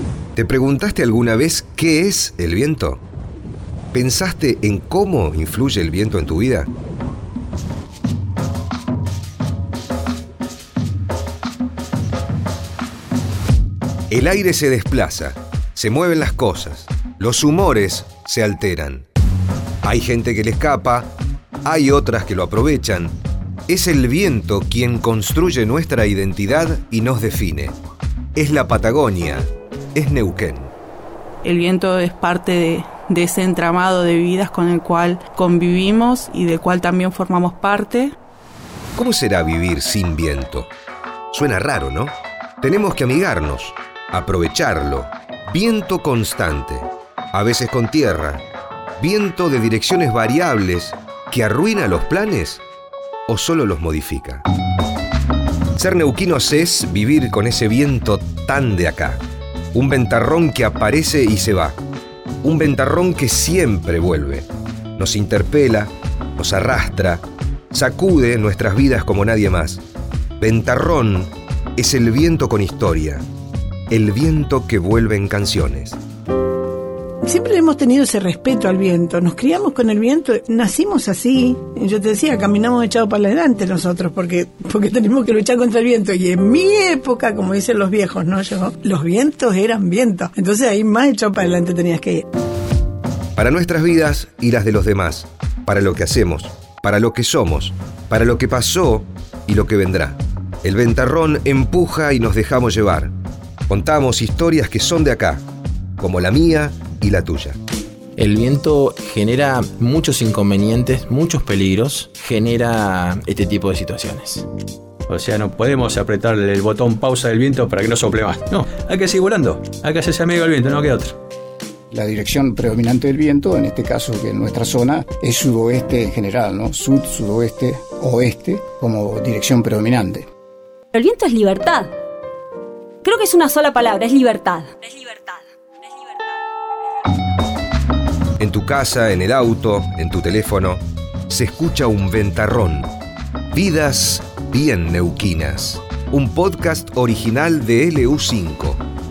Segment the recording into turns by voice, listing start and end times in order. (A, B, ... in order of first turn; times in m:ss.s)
0:00.4-0:03.0 A
0:03.9-0:06.7 A
0:14.1-0:19.0 A
0:19.8-0:21.1 A
0:21.6-0:23.2 A
0:23.7-0:27.8 A
0:28.4-0:30.7 A
0:31.4-0:38.1 B
0:39.0-0:40.7 A
0:41.3-0:48.4 A
0:49.0-0:52.6 A
0:53.3-0:54.4 A
0:55.8-0:59.2 A
0:59.7-1:01.8 A
1:02.4-1:09.8 A
1:10.4-1:13.2 A
1:13.9-1:16.0 A
1:17.2-1:32.2 C
1:33.4-1:43.1 A
1:43.7-1:45.4 A
1:46.0-1:47.6 A
1:48.2-1:54.4 D
1:55.1-2:01.1 E
2:01.9-2:10.3 F
2:10.9-2:11.9 G
2:13.0-2:15.4 G
2:18.4-2:22.9 A
2:23.5-2:28.8 A